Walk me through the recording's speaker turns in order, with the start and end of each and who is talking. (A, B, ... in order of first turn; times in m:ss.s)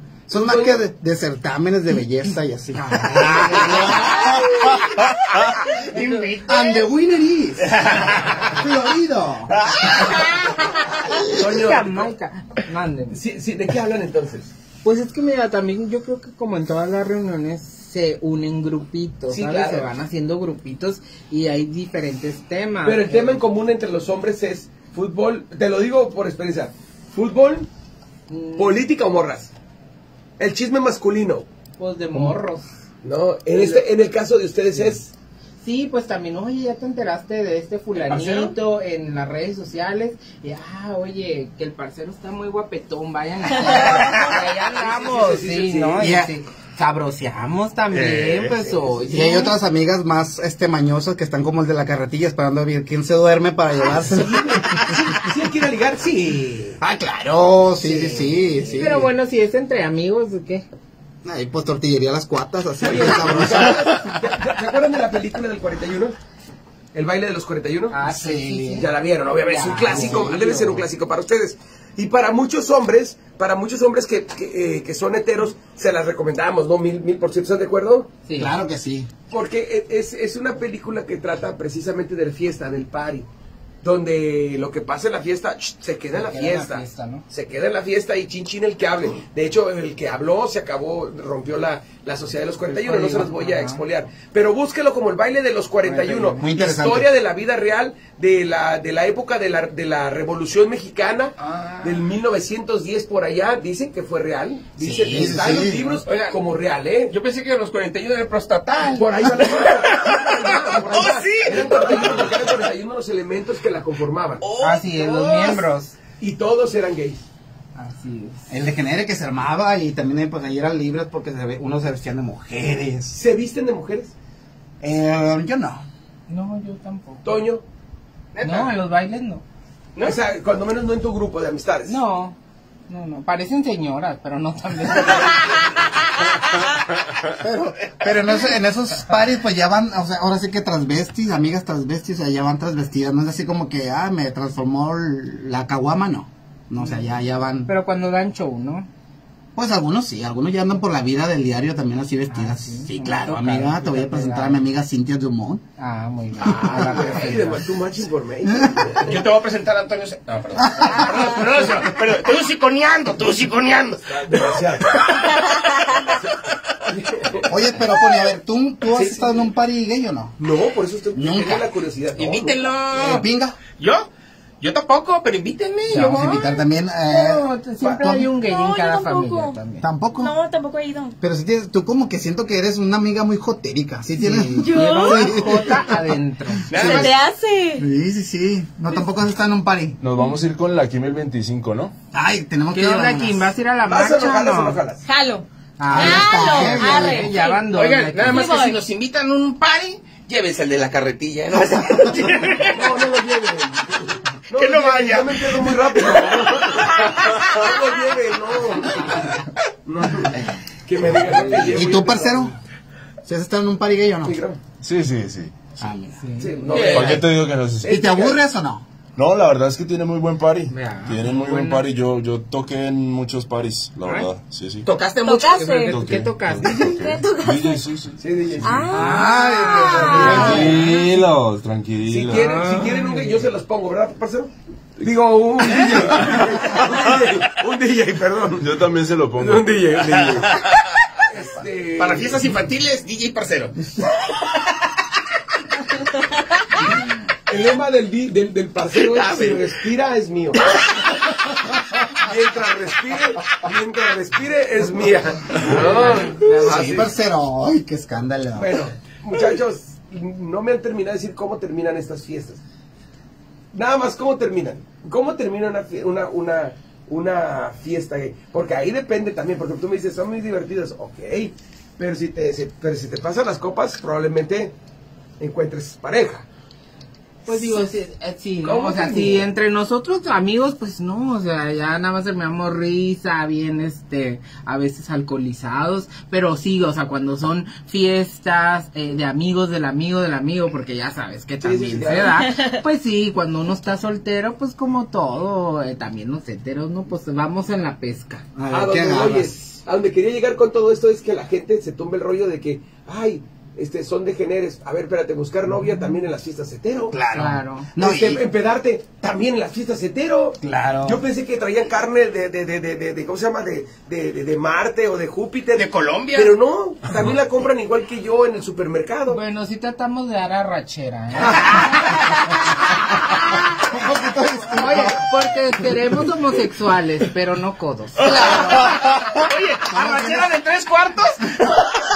0:00.3-0:00.8 A
0:00.3-0:04.6 B
0:02.9-0:03.4 C
0:03.1-0:04.3 D
0:05.8-0:07.8 B
0:07.7-0:08.4 D
0:08.4-0:10.2 B
0:11.3-0:12.1 A
0:11.3-0:13.2 C
0:13.1-0:14.5 A
0:14.8-0:23.4 C
0:19.3-0:19.9 A
0:22.8-0:27.7 A
0:28.3-0:28.8 C
0:28.6-0:29.5 A
0:30.4-0:31.5 A
0:31.8-0:32.7 C
0:33.0-0:35.1 A
0:33.6-0:33.8 C
0:35.6-0:49.6 C
0:38.1-0:38.5 A
0:43.7-0:44.1 B
0:44.2-0:46.3 A
0:46.0-0:46.3 B
0:47.9-0:55.2 B
0:48.6-0:48.9 A
0:53.9-0:56.8 A
0:56.8-0:59.1 B
0:58.5-1:00.7 C
1:01.2-1:04.2 B
1:02.8-1:06.2 A
1:06.9-1:08.0 A
1:07.9-1:10.8 C
1:08.0-1:08.9 B
1:08.8-1:18.1 A
1:09.6-1:10.4 B
1:18.2-1:18.6 C
1:18.4-1:19.1 B
1:19.3-1:23.3 A
1:23.8-1:47.2 A
1:26.2-1:27.2 C
1:32.7-1:33.8 C
1:35.8-1:36.5 C
1:36.4-1:37.1 B
1:41.4-1:42.0 D
1:44.8-1:46.4 D
1:45.0-1:45.9 B
1:47.1-1:52.6 D
1:48.9-1:54.4 A
1:54.4-1:55.7 D
1:54.6-1:55.9 C
1:56.2-1:57.2 A
1:57.8-1:58.5 C
1:58.5-2:03.2 B
2:03.1-2:04.1 A
2:04.8-2:05.9 B
2:06.3-2:07.4 C
2:07.2-2:07.6 A
2:08.4-2:08.7 D
2:08.4-2:09.4 C
2:10.0-2:12.0 A
2:11.9-2:12.4 C
2:12.9-2:15.8 C
2:17.4-2:17.7 D
2:17.9-2:27.7 B
2:26.8-2:27.0 C
2:27.7-2:28.9 C
2:29.6-2:35.6 B
2:32.3-2:34.6 C
2:35.8-2:37.6 C
2:36.4-2:36.9 B
2:36.7-2:39.2 A
2:36.7-2:37.1 D
2:38.5-2:38.8 B
2:39.0-2:44.6 D
2:40.8-2:41.4 E
2:44.2-2:45.4 A
2:45.5-2:46.0 E
2:46.1-2:47.7 A
2:47.5-2:50.4 B
2:48.9-2:49.5 A
2:50.4-2:52.7 A
2:51.1-2:51.7 B
2:52.2-2:54.1 D
2:52.9-2:53.6 B
2:54.6-2:56.3 D
2:55.9-2:56.5 C
2:55.9-2:58.3 B
2:56.1-2:56.5 E
2:57.1-2:59.8 C
2:57.8-2:58.1 A
2:58.3-2:59.6 E
2:59.8-3:00.4 B
3:00.2-3:01.2 E
3:01.2-3:06.1 B
3:04.2-3:07.0 C
3:04.6-3:05.6 E
3:06.7-3:07.1 B
3:06.7-3:07.2 D
3:06.7-3:07.9 E
3:07.8-3:10.0 B
3:10.0-3:11.9 F
3:12.1-3:13.6 B
3:12.7-3:14.8 C
3:13.9-3:15.0 A
3:15.1-3:17.7 E
3:15.8-3:18.5 C
3:15.9-3:17.3 B
3:17.6-3:23.1 D
3:18.2-3:18.8 E
3:22.7-3:32.6 A
3:24.5-3:27.7 D
3:31.0-3:32.6 B
3:33.2-3:34.4 B
3:34.2-3:34.6 A
3:34.8-3:35.6 F
3:35.8-3:37.2 B
3:36.2-3:37.0 C
3:36.4-3:37.2 A
3:36.7-3:37.2 D
3:36.7-3:38.0 F
3:37.8-3:38.4 A
3:37.9-3:38.8 B
3:39.2-3:44.9 F
3:40.7-3:41.8 C
3:44.8-3:45.9 D
3:45.2-3:46.0 E
3:45.3-3:47.0 C
3:45.9-3:48.8 F
3:46.6-3:47.9 E
3:48.2-3:49.0 A
3:48.6-3:50.9 E
3:48.9-3:51.0 C
3:49.0-3:50.6 D
3:49.0-3:50.8 B
3:50.2-3:50.7 A
3:50.3-3:52.6 F
3:52.1-3:58.8 A
3:52.3-3:53.5 C
3:58.6-4:00.4 F
3:59.4-4:00.6 A
4:00.3-4:00.6 D
4:01.3-4:02.4 A
4:02.0-4:04.2 D
4:07.5-4:10.7 A
4:09.0-4:09.7 D
4:12.2-4:17.1 A
4:15.6-4:17.0 C
4:16.5-4:18.8 B
4:18.6-4:22.6 A
4:23.7-4:34.8 A
4:35.4-4:36.5 A
4:37.5-4:58.5 C
4:37.5-4:37.7 A
4:38.6-4:39.5 A
4:51.6-4:52.3 A
4:52.2-4:52.8 E
4:58.6-4:59.6 B
4:58.7-5:07.2 A
5:07.1-5:08.5 B
5:07.3-5:07.9 C
5:08.0-5:19.4 A
5:10.6-5:11.2 B
5:15.8-5:16.6 D
5:19.3-5:22.2 C
5:21.4-5:22.0 A
5:23.7-5:25.8 B
5:24.8-5:29.0 C
5:28.2-5:31.3 D
5:28.3-5:28.8 B
5:29.9-5:30.6 B